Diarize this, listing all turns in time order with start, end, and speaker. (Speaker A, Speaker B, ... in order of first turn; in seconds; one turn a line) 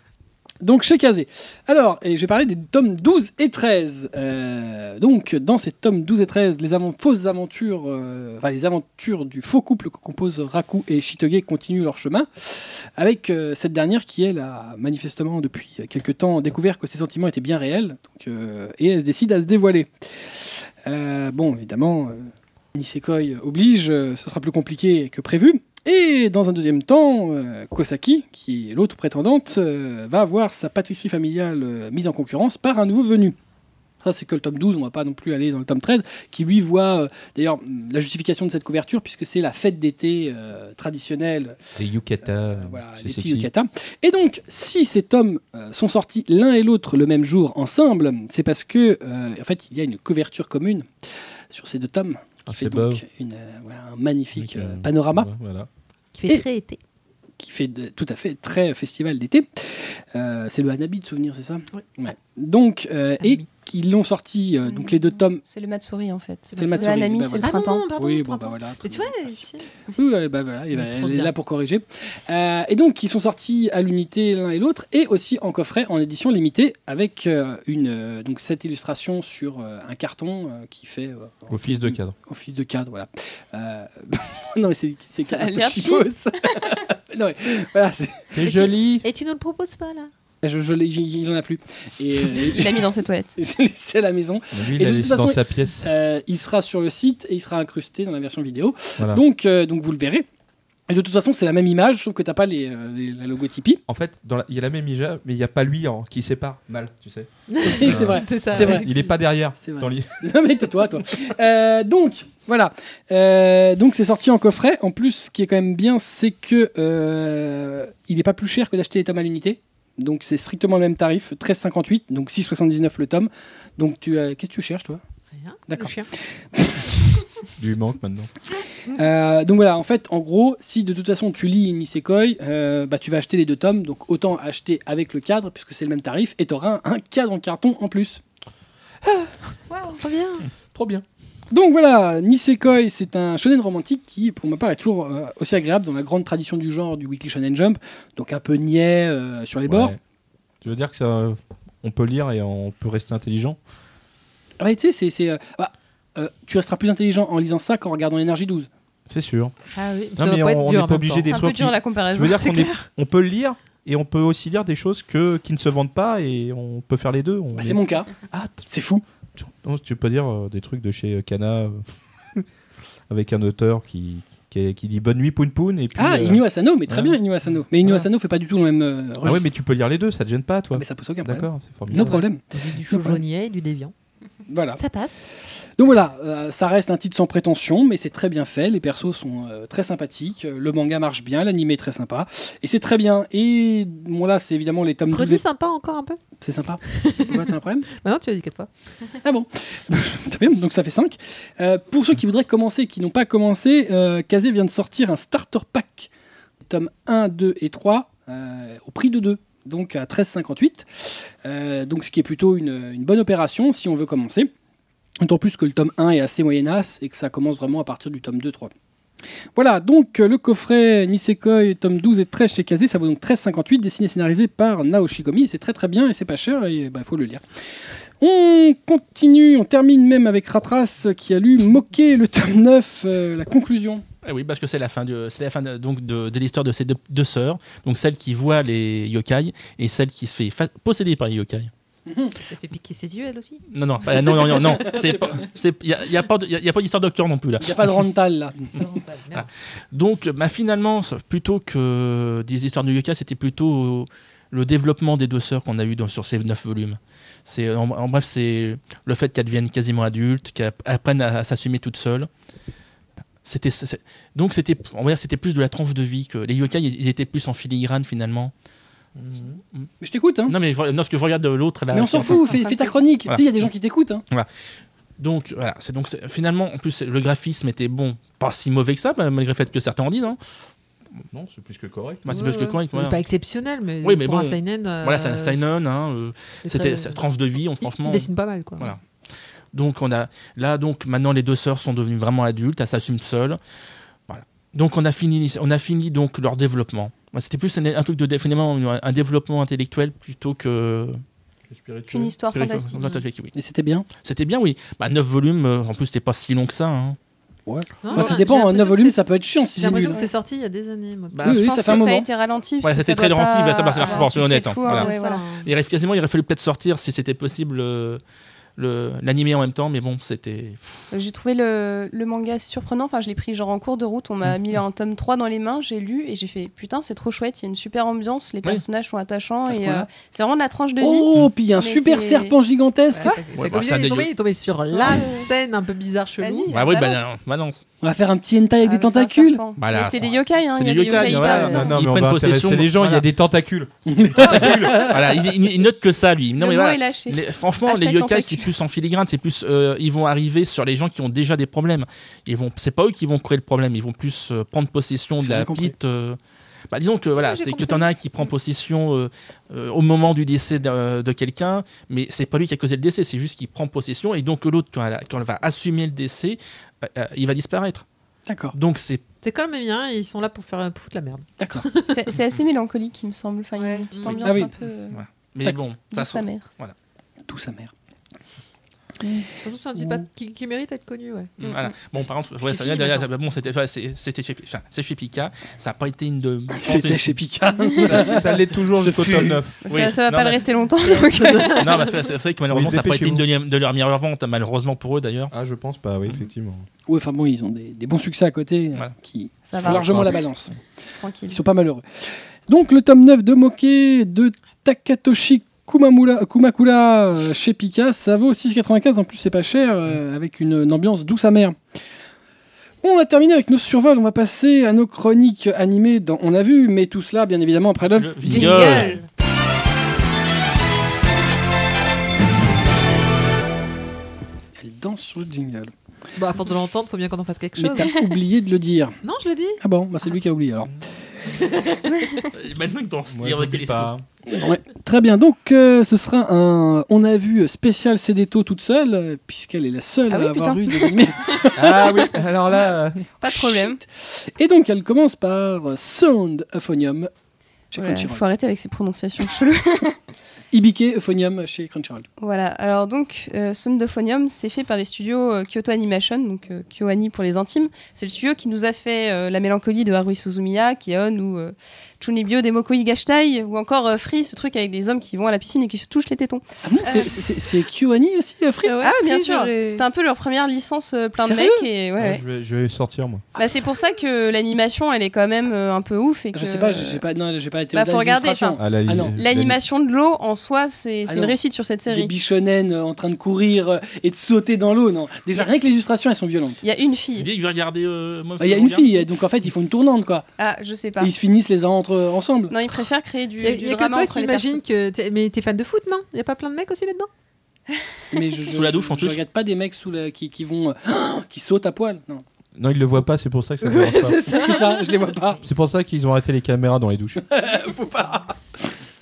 Speaker A: 0.6-33.4
Speaker A: 34.0-41.6
Speaker B: 41.8-43.5
Speaker A: 42.5-55.3
Speaker B: 52.5-53.0
Speaker B: 54.4-55.7
Speaker C: 56.1-56.8
Speaker A: 57.4-65.4
Speaker C: 63.2-63.5
Speaker D: 65.4-67.9
Speaker C: 66.5-69.7
Speaker A: 66.5-69.4
Speaker A: 69.9-88.3
Speaker C: 70.7-71.3
Speaker B: 81.5-82.2
Speaker D: 85.2-86.1
Speaker B: 88.3-89.0
Speaker C: 88.5-90.1
Speaker A: 90.4-100.3
Speaker D: 92.3-93.3
Speaker B: 94.5-95.9
Speaker B: 99.0-99.2
Speaker A: 100.9-103.8
Speaker B: 103.9-110.1
Speaker C: 107.5-109.0
Speaker A: 107.6-109.0
Speaker A: 109.6-125.0
Speaker C: 125.3-126.1
Speaker A: 125.7-126.0
Speaker A: 126.5-126.9
Speaker B: 127.6-128.3
Speaker A: 128.9-138.2
Speaker D: 139.7-140.0
Speaker C: 139.9-140.5
Speaker B: 140.7-141.1
Speaker A: 141.5-150.0
Speaker B: 149.7-150.0
Speaker B: 150.6-153.6
Speaker A: 154.6-158.7
Speaker B: 159.1-159.5
Speaker C: 159.8-161.3
Speaker B: 160.2-168.7
Speaker D: 161.2-162.4
Speaker C: 162.3-162.9
Speaker A: 167.5-168.1
Speaker A: 168.7-169.0
Speaker B: 169.4-172.4
Speaker B: 173.1-177.2
Speaker A: 176.0-179.5
Speaker B: 179.2-182.2
Speaker A: 180.7-183.2
Speaker C: 181.9-183.9
Speaker A: 184.5-184.8
Speaker C: 184.8-185.3
Speaker A: 185.8-195.4
Speaker C: 195.1-196.2
Speaker A: 196.4-197.9
Speaker C: 196.9-198.7
Speaker A: 199.2-206.1
Speaker A: 206.6-210.9
Speaker A: 211.4-214.5
Speaker A: 215.2-218.7
Speaker A: 219.6-227.4
Speaker A: 228.2-234.1
Speaker E: 234.2-241.7
Speaker A: 242.1-242.3
Speaker C: 242.4-243.6
Speaker E: 243.7-248.0
Speaker A: 244.1-245.5
Speaker A: 247.6-248.8
Speaker C: 248.8-249.5
Speaker E: 249.3-262.3
Speaker E: 263.4-268.5
Speaker B: 269.3-269.6
Speaker A: 270.0-270.6
Speaker E: 270.5-272.5
Speaker A: 271.9-274.2
Speaker D: 272.4-272.9
Speaker E: 275.2-280.4
Speaker B: 281.3-282.4
Speaker E: 282.2-283.2
Speaker C: 282.3-285.6
Speaker E: 284.0-289.0
Speaker C: 286.6-287.2
Speaker C: 287.8-288.9
Speaker E: 289.7-293.6
Speaker E: 294.3-301.2
Speaker B: 301.7-302.3
Speaker D: 302.1-303.2
Speaker E: 302.5-303.5
Speaker A: 303.6-304.1
Speaker E: 304.2-307.2
Speaker A: 307.7-310.2
Speaker C: 308.0-311.6
Speaker E: 311.3-312.0
Speaker A: 311.4-312.3
Speaker D: 311.6-315.4
Speaker E: 312.8-315.1
Speaker C: 314.0-315.7
Speaker E: 315.6-318.2
Speaker E: 318.8-321.1
Speaker D: 321.1-332.6
Speaker A: 329.7-330.1
Speaker A: 331.0-333.4
Speaker C: 333.1-336.7
Speaker E: 333.5-334.3
Speaker D: 334.9-335.5
Speaker D: 336.4-337.4
Speaker E: 336.7-337.8
Speaker A: 338.0-339.6
Speaker D: 338.8-342.0
Speaker E: 339.8-343.3
Speaker C: 341.2-341.8
Speaker B: 341.5-344.6
Speaker A: 344.1-345.5
Speaker E: 344.4-356.4
Speaker D: 346.6-348.7
Speaker A: 355.4-355.9
Speaker E: 356.9-368.1
Speaker C: 357.4-358.1
Speaker A: 368.5-368.8
Speaker E: 368.7-369.2
Speaker C: 369.4-372.3
Speaker A: 371.6-371.9
Speaker D: 372.1-375.2
Speaker C: 373.8-374.7
Speaker A: 374.4-374.7
Speaker E: 375.1-376.9
Speaker D: 376.1-376.7
Speaker A: 377.5-377.9
Speaker C: 379.6-381.5
Speaker E: 381.6-387.4
Speaker C: 382.6-383.3
Speaker A: 386.8-389.6
Speaker B: 388.0-389.8
Speaker D: 389.8-391.8
Speaker E: 389.9-390.7
Speaker C: 391.0-392.3
Speaker E: 391.7-395.5
Speaker B: 392.7-393.4
Speaker B: 395.5-396.9
Speaker A: 397.1-400.7
Speaker D: 399.7-400.4
Speaker B: 399.8-400.4
Speaker D: 401.2-401.6
Speaker A: 401.5-402.0
Speaker A: 402.7-411.8
Speaker A: 413.0-419.1
Speaker E: 418.1-419.2
Speaker C: 418.5-419.3
Speaker A: 424.8-425.9
Speaker C: 426.4-428.1
Speaker A: 427.8-429.2
Speaker C: 429.2-429.8
Speaker A: 429.8-431.0
Speaker E: 432.5-434.1
Speaker B: 433.3-434.2
Speaker A: 434.5-442.2
Speaker D: 440.3-441.1
Speaker B: 441.8-443.3
Speaker D: 443.4-444.0
Speaker A: 443.5-447.3
Speaker A: 447.9-448.4
Speaker D: 448.0-450.2
Speaker A: 450.7-452.3
Speaker D: 452.4-467.3
Speaker A: 466.8-469.0
Speaker C: 468.8-470.1
Speaker D: 469.0-472.4
Speaker A: 471.4-471.9
Speaker B: 472.2-473.4
Speaker D: 473.6-477.2
Speaker A: 476.5-479.4
Speaker D: 477.9-478.8
Speaker B: 478.8-479.8
Speaker D: 479.3-482.3
Speaker A: 481.3-481.6
Speaker A: 482.1-486.8
Speaker D: 486.8-487.5
Speaker E: 487.4-489.1
Speaker A: 488.6-490.5
Speaker D: 490.6-491.3
Speaker A: 491.2-492.8
Speaker D: 492.7-494.8
Speaker C: 493.6-497.3
Speaker A: 498.3-502.4
Speaker E: 498.7-499.4
Speaker B: 502.8-504.4
Speaker C: 503.8-505.1
Speaker A: 504.5-505.6
Speaker B: 505.6-507.4
Speaker A: 507.4-508.9